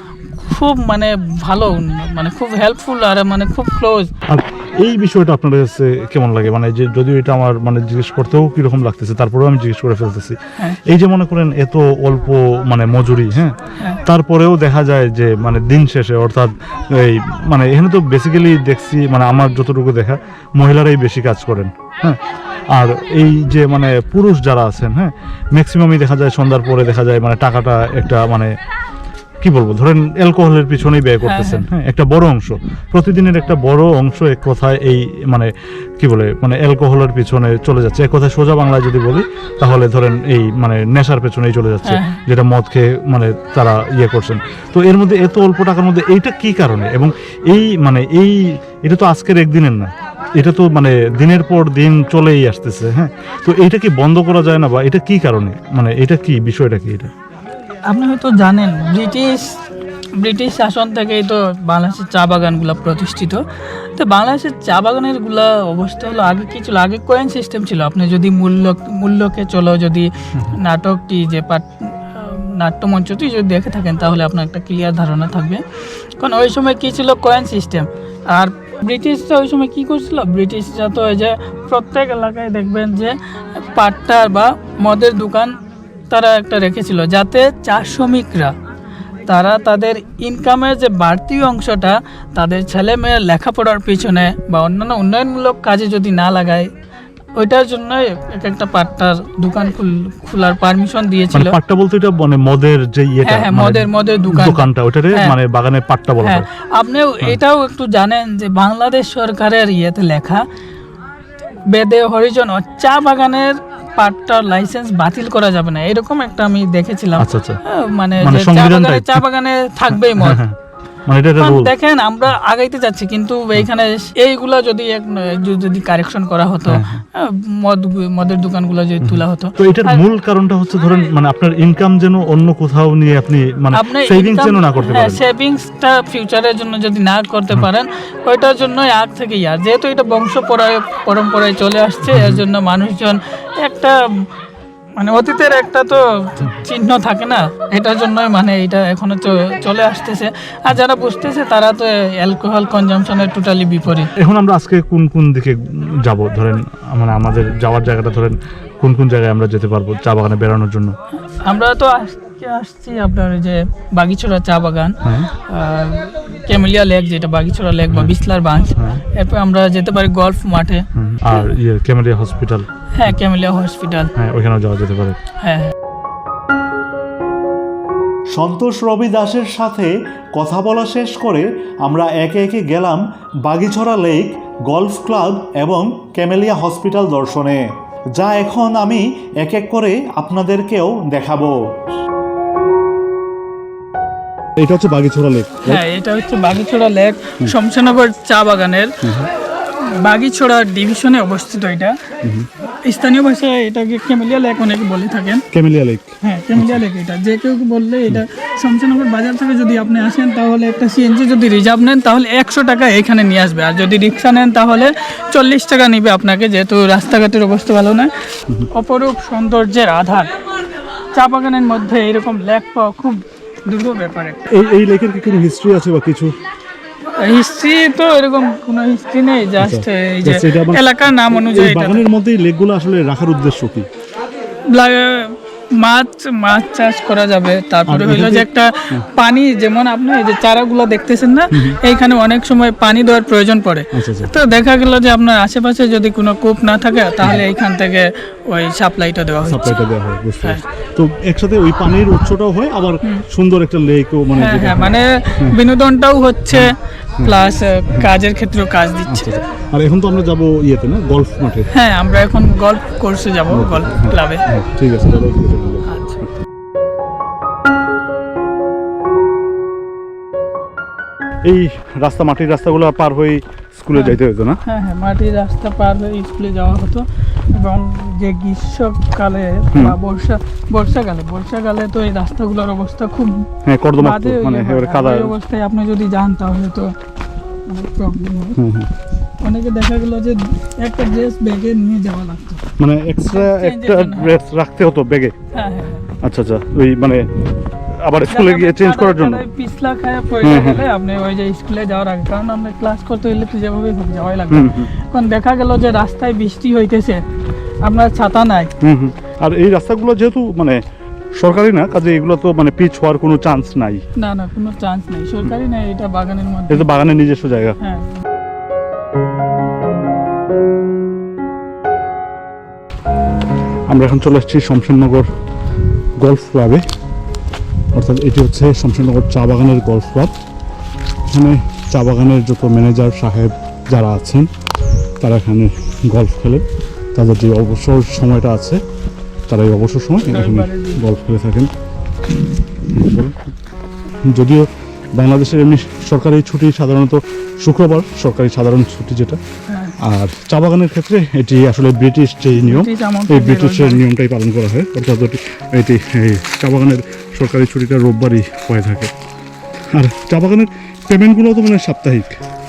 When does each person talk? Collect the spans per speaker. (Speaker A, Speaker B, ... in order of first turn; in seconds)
Speaker A: 0.4-4.1, 31.2-31.6, 41.8-42.2, 57.9-59.5, 60.2-75.6, 76.2-85.5, 86.1-88.5, 89.3-96.7, 97.4-101.5, 103.2-105.3, 106.2-110.5, 111.7-120.4, 121.4-130.0, 133.7-144.2, 145.0-154.1, 161.3-170.8, 172.9-174.1, 175.4-175.7, 195.7-199.0, 199.8-202.0, 202.8-205.4, 206.2-218.1, 218.7-220.3, 221.1-224.4, 227.2-232.0, 234.7-249.7, 254.3-259.3, 261.7-264.4, 265.9-266.2, 273.9-283.4, 284.0-286.9, 287.7-288.6, 289.4-292.7, 293.3-294.3, 295.5-296.1, 298.3-307.2, 307.8-308.7, 314.2-316.9, 317.8-318.2, 340.3-341.0, 349.7-349.9, 352.6-354.0
Speaker B: 4.3-22.2, 22.7-28.5, 29.4-57.1, 101.3-106.4, 117.2-117.6, 118.2-119.2, 120.2-120.5, 121.1-121.7, 126.7-127.0, 129.0-135.2, 142.1-142.4, 154.1-160.9, 165.0-165.3, 168.8-169.0, 170.9-172.7, 174.1-175.2, 194.6-195.8, 199.0-199.3, 202.2-202.5, 205.5-206.8, 224.5-226.3, 229.6-233.9, 237.9-239.1, 241.5-241.8, 243.9-244.3, 249.4-255.6, 256.5-257.3, 259.1-261.7, 263.5-266.3, 271.4-274.6, 283.6-285.3, 288.6-288.9, 292.8-295.3, 296.2-297.3, 298.0-299.4, 300.4-300.8, 304.5-304.9, 308.8-310.8, 311.4-314.0, 316.7-317.8, 323.9-325.3, 326.2-326.8, 327.9-330.3, 331.3-334.5, 335.2-338.8, 339.5-341.7, 342.9-343.5, 344.2-349.4, 350.0-359.1, 359.9-362.4
Speaker C: 178.3-191.7